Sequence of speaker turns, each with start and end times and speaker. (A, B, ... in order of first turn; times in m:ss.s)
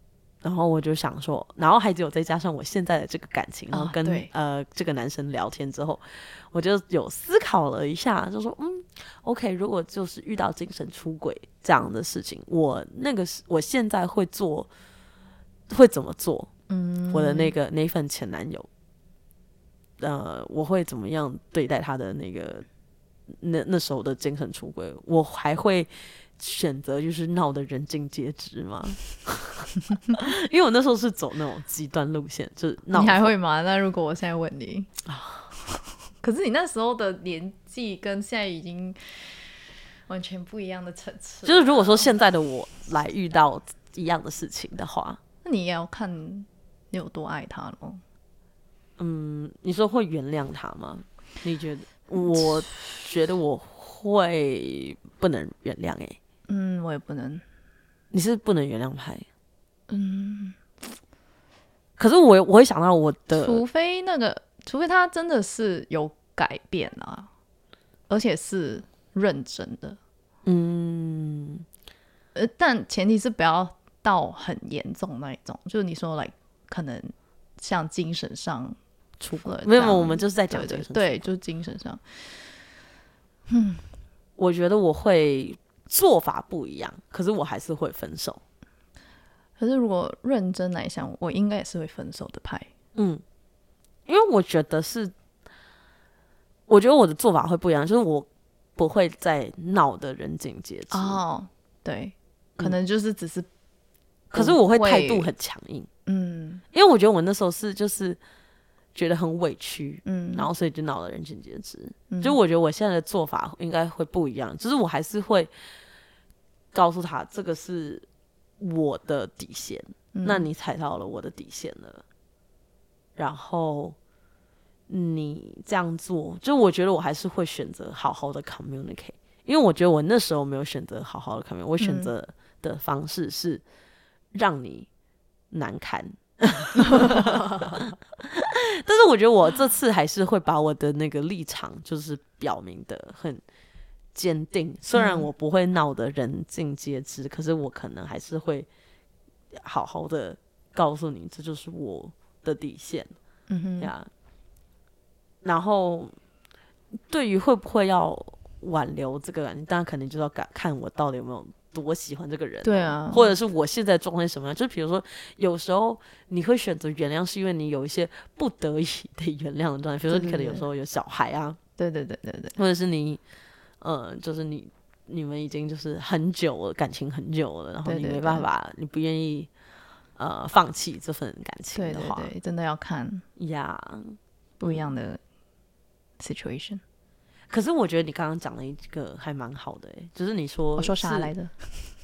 0:00.4-0:14.7 A
0:03.7-0:04.3 B
0:15.7-0:16.5 A
0:16.7-0:17.5 B
0:17.1-0:18.7 A
0:20.0-0:22.7 A
0:23.3-0:33.3 A
0:32.9-0:34.9 B
0:35.0-0:35.5 A
0:36.1-0:39.4 B
0:40.1-0:42.1 B
0:41.4-0:45.2 A
0:45.4-0:48.0 B
0:49.0-0:56.2 A
0:56.5-0:57.4 B
0:58.1-0:59.3 A
0:59.9-1:00.6 B
1:02.0-1:03.6 A
1:03.4-1:07.3 B
1:08.1-1:10.0 B
1:10.4-1:11.6 A
1:12.4-1:18.8 B
1:19.2-1:21.3 A
1:19.4-1:22.0 B
1:23.5-1:23.8 B
1:24.4-1:28.4 A
1:29.6-1:32.7 B
1:33.0-1:33.2 A
1:34.1-1:35.1 A
1:36.7-1:41.2 A
1:40.9-1:43.5 B
1:44.3-1:45.9 A
1:44.4-1:45.3 B
1:46.1-1:46.6 B
1:46.7-1:48.2 A
1:49.0-1:55.5 A
1:50.0-1:50.5 B
1:52.1-1:52.4 B
1:56.7-1:58.1 A
1:58.6-2:02.0 A
2:00.1-2:00.5 B
2:03.2-2:04.0 A
2:04.9-2:13.6 A
2:11.8-2:12.1 B
2:14.3-2:14.9 A
2:15.5-2:23.4 A
2:24.2-2:28.7 A
2:24.9-2:25.3 B
2:29.5-2:33.1 A
2:33.5-2:33.9 B
2:33.8-2:34.1 A
2:35.4-2:36.1 A
2:37.1-2:51.6 A
2:42.6-2:43.3 B
2:50.1-2:50.6 B
2:51.8-2:52.6 B
2:52.6-2:53.2 A
2:53.8-2:59.5 A
2:57.8-2:58.5 B
3:00.2-3:02.3 A
3:01.7-3:03.2 B
3:03.4-3:04.9 A
3:04.6-3:05.2 B
3:06.2-3:06.8 B
3:07.5-3:11.3 A
3:10.8-3:11.7 B